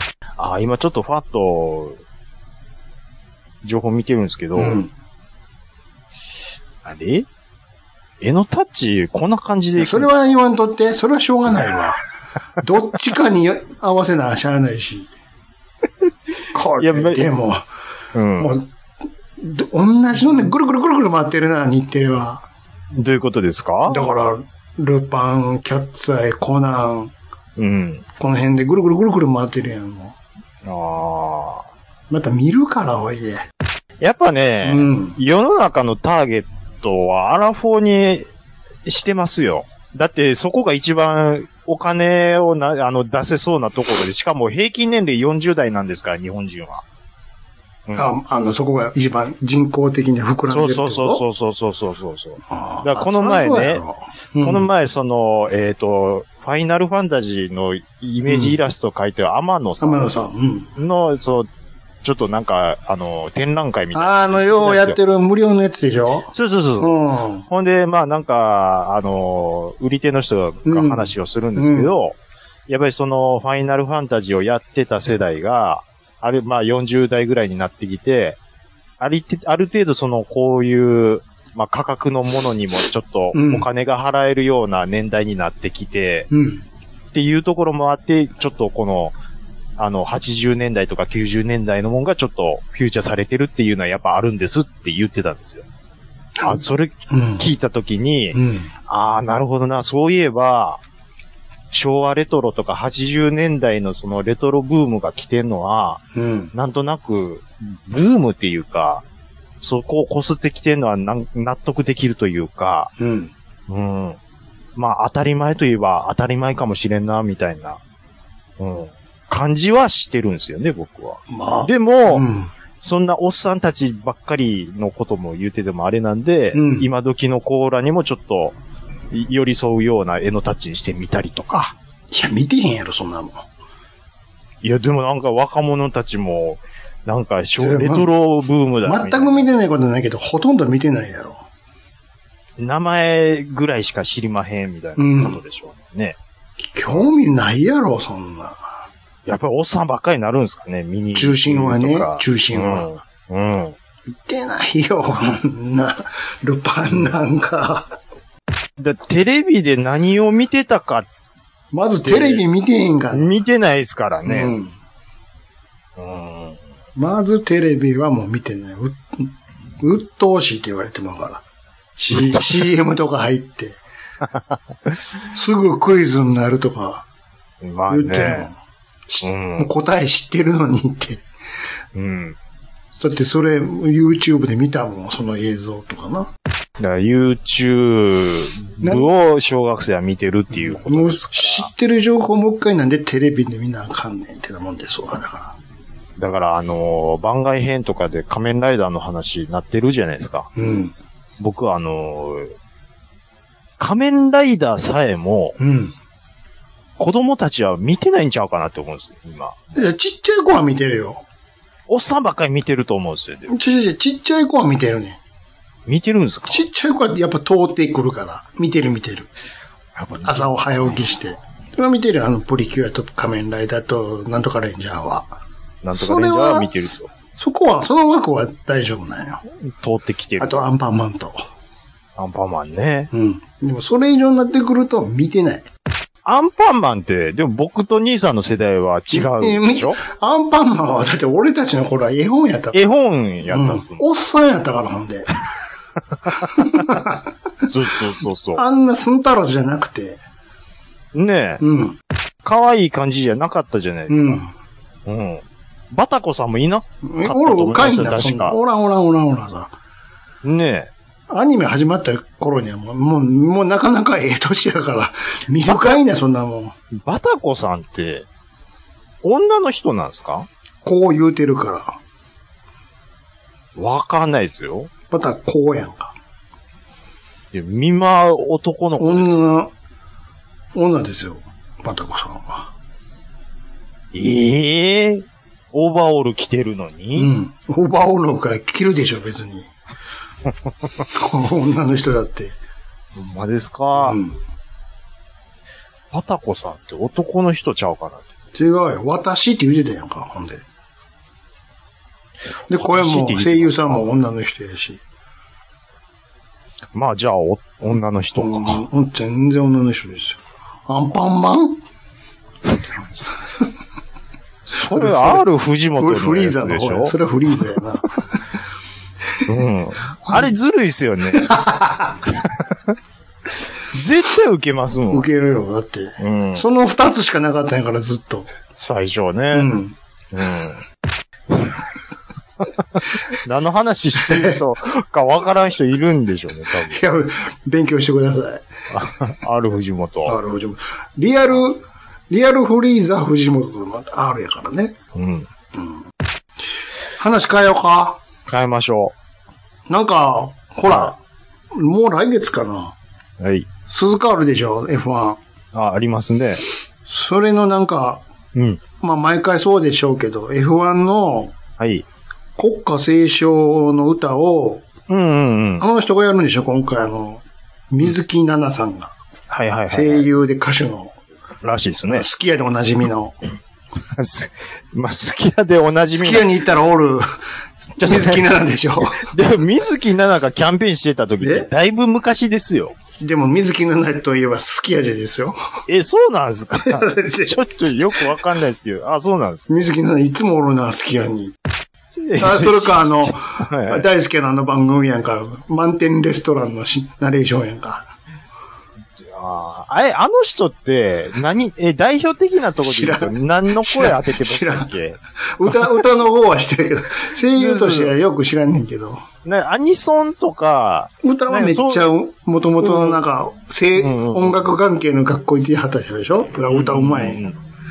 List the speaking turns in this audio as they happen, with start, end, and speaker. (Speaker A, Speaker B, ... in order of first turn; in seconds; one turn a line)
Speaker A: 0.4-2.0
Speaker A: 3.6-4.8
Speaker B: 4.5-4.9
Speaker A: 6.8-7.2
Speaker A: 8.2-10.3
Speaker B: 9.8-12.0
Speaker B: 12.6-15.1
Speaker B: 16.5-17.6
Speaker A: 16.8-17.3
Speaker A: 18.1-18.5
Speaker B: 18.4-18.7
Speaker B: 19.4-22.4
Speaker A: 22.9-24.0
Speaker B: 23.9-27.1
Speaker A: 27.6-28.0
Speaker B: 28.2-30.1
Speaker A: 30.6-31.6
Speaker B: 32.1-33.5
Speaker A: 34.0-38.3
Speaker B: 34.6-35.2
Speaker A: 38.9-46.8
Speaker A: 47.9-48.1
Speaker B: 47.9-51.2
Speaker A: 50.5-53.8
Speaker B: 52.5-54.7
Speaker A: 54.4-60.1
Speaker B: 58.2-58.6
Speaker B: 59.8-60.7
Speaker A: 60.8-61.5
Speaker A: 62.0-65.0
Speaker B: 63.9-67.5
Speaker A: 66.3-72.1
Speaker B: 70.6-71.9
Speaker A: 72.7-78.4
Speaker A: 79.0-86.3
Speaker B: 83.3-83.7
Speaker B: 86.3-86.6
Speaker A: 87.1-89.1
Speaker A: 89.8-95.6
Speaker B: 96.3-97.5
Speaker A: 96.4-100.8
Speaker B: 98.3-98.7
Speaker A: 101.7-106.0
Speaker B: 106.1-106.5
Speaker A: 106.5-109.0
Speaker A: 109.6-112.9
Speaker B: 113.0-113.3
Speaker A: 113.7-114.2
Speaker A: 114.8-117.8
Speaker A: 118.6-122.2
Speaker B: 121.3-122.5
Speaker A: 122.8-128.6
Speaker B: 126.5-126.9
Speaker A: 129.1-131.7
Speaker B: 132.1-133.4
Speaker A: 134.6-139.6
Speaker B: 137.6-138.1
Speaker B: 138.8-141.4
Speaker A: 142.6-146.2
Speaker B: 145.0-145.4
Speaker B: 146.6-148.7
Speaker A: 149.2-153.8
Speaker B: 151.1-152.9
Speaker B: 154.1-157.9
Speaker A: 158.8-161.1
Speaker B: 161.7-163.3
Speaker A: 162.0-162.4
Speaker A: 163.1-164.6
Speaker B: 164.2-164.7
Speaker A: 166.0-166.6
Speaker B: 166.9-171.4
Speaker B: 171.9-173.8
Speaker A: 172.1-172.5
Speaker B: 175.3-177.0
Speaker A: 177.6-178.5
Speaker B: 177.9-178.5
Speaker B: 179.1-181.2
Speaker A: 179.2-179.7
Speaker A: 181.9-182.4
Speaker B: 182.9-186.3
Speaker A: 186.8-191.7
Speaker B: 188.8-189.1
Speaker B: 190.5-195.6
Speaker A: 196.2-200.5
Speaker B: 200.6-200.9
Speaker A: 201.4-202.5
Speaker A: 203.8-205.6
Speaker B: 205.6-205.9
Speaker A: 207.0-209.6
Speaker B: 209.7-211.2
Speaker A: 211.9-213.5
Speaker B: 213.5-215.2
Speaker A: 215.9-216.6
Speaker B: 216.5-219.3
Speaker A: 219.9-220.6
Speaker B: 220.2-225.3
Speaker A: 225.8-227.1
Speaker B: 225.9-229.4
Speaker A: 229.6-230.7
Speaker B: 230.4-231.4
Speaker A: 232.2-233.1
Speaker B: 233.1-235.7
Speaker A: 236.2-240.0
Speaker B: 239.1-242.8
Speaker A: 242.7-244.1
Speaker B: 243.5-245.3
Speaker A: 246.3-247.0
Speaker B: 246.3-247.3
Speaker A: 247.6-248.6
Speaker B: 248.5-250.2
Speaker A: 251.1-251.6
Speaker B: 251.6-252.0
Speaker A: 252.4-254.4
Speaker B: 254.1-254.5
Speaker A: 255.1-258.6
Speaker B: 257.0-259.7
Speaker A: 260.4-260.9
Speaker B: 261.3-266.8
Speaker A: 266.9-268.2
Speaker A: 269.2-270.5
Speaker B: 270.8-272.0
Speaker A: 273.8-274.9
Speaker B: 275.1-276.1
Speaker A: 277.5-279.4
Speaker B: 279.0-279.7
Speaker B: 280.7-282.7
Speaker A: 284.1-287.3
Speaker B: 287.1-289.7
Speaker B: 291.1-292.6
Speaker A: 293.1-294.2
Speaker B: 293.9-294.4
Speaker A: 296.1-298.3
Speaker B: 298.5-300.6
Speaker B: 302.7-305.0
Speaker A: 302.7-304.0
Speaker A: 306.9-308.8
Speaker B: 308.4-311.8
Speaker A: 314.7-317.1
Speaker B: 314.8-315.4
Speaker B: 316.0-318.1
Speaker A: 319.4-321.5
Speaker B: 321.3-322.1
Speaker A: 322.3-322.9
Speaker A: 323.9-325.2
Speaker B: 325.1-328.5
Speaker A: 326.2-326.6
Speaker A: 328.8-329.7
Speaker B: 329.5-329.9
Speaker A: 330.3-330.8
Speaker A: 332.9-337.0
Speaker B: 334.1-334.6
Speaker B: 336.9-338.6
Speaker A: 338.9-340.4
Speaker B: 340.2-344.9
Speaker A: 345.1-345.5
Speaker B: 345.7-346.0
Speaker B: 347.2-348.2
Speaker A: 348.5-349.1
Speaker B: 349.9-351.2
Speaker A: 350.9-351.1
Speaker B: 351.7-352.9
Speaker A: 353.4-353.7
Speaker B: 353.9-355.4
Speaker A: 355.7-356.6
Speaker B: 357.1-358.2
Speaker A: 358.5-358.8
Speaker B: 359.0-361.5
Speaker A: 361.8-362.1
Speaker B: 362.6-364.9
Speaker A: 365.1-365.8
Speaker B: 365.8-369.1
Speaker A: 369.5-370.2
Speaker B: 369.9-371.1
Speaker A: 371.6-372.2
Speaker B: 372.1-373.4
Speaker A: 374.1-376.4
Speaker B: 376.1-377.3
Speaker B: 378.0-379.3
Speaker A: 378.0-378.4
Speaker A: 379.1-382.9
Speaker B: 381.4-381.7
Speaker B: 383.2-385.6
Speaker A: 385.9-389.7
Speaker B: 386.8-387.6
Speaker B: 389.7-391.5
Speaker A: 392.1-394.0
Speaker B: 392.4-398.1
Speaker A: 399.2-405.2
Speaker B: 402.8-404.9
Speaker B: 405.5-409.2
Speaker A: 407.6-408.1
Speaker A: 409.4-412.1
Speaker B: 411.2-417.5
Speaker A: 412.8-413.2
Speaker A: 414.0-414.7
Speaker A: 416.7-417.6